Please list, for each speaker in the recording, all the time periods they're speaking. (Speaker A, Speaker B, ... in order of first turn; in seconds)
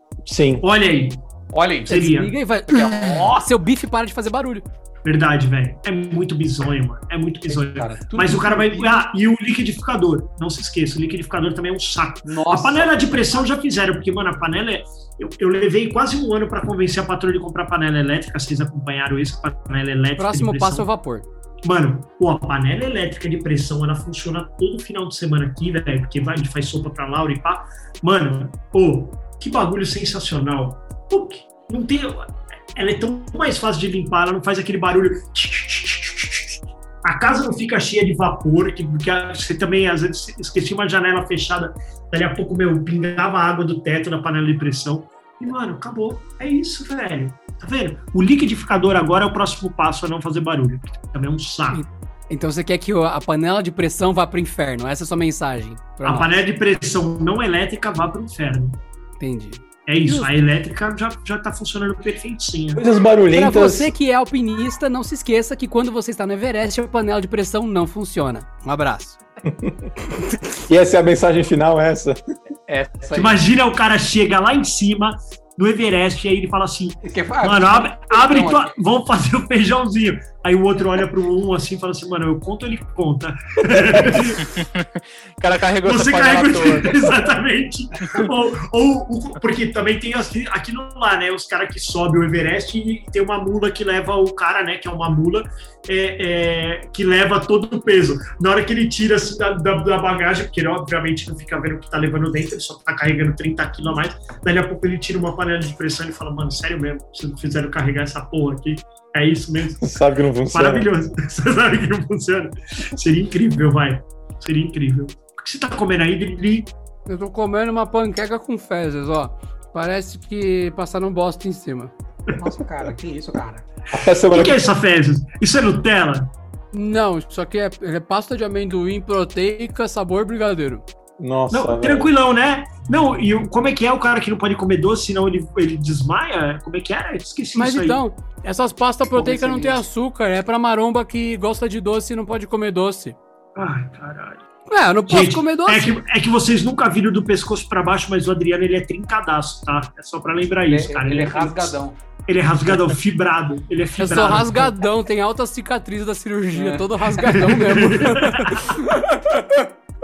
Speaker A: 0.2-0.6, 62.7-63.9, 69.4-69.9, 70.7-72.2, 109.8-110.9, 123.9-124.6, 131.2-132.1
Speaker B: 0.6-1.2, 1.9-2.3, 5.0-20.9, 21.6-51.8, 56.0-58.8, 59.9-62.8, 73.1-84.5, 85.8-110.0, 110.5-116.7, 124.1-126.3, 131.5-138.0, 143.6-144.4, 145.1-154.7, 157.2-158.8
Speaker C: 1.5-2.1, 2.6-3.4, 7.5-8.8, 12.2-13.4, 72.7-73.4, 77.0-78.7, 122.3-123.6, 139.2-139.8, 150.7-152.0, 156.5-157.3
Speaker D: 1.9-4.6, 20.2-21.3, 51.7-56.4, 59.2-60.3, 63.3-69.2, 117.1-121.9, 126.7-130.8, 137.5-143.2, 144.7-146.0, 154.0-159.7
Speaker E: 84.4-87.1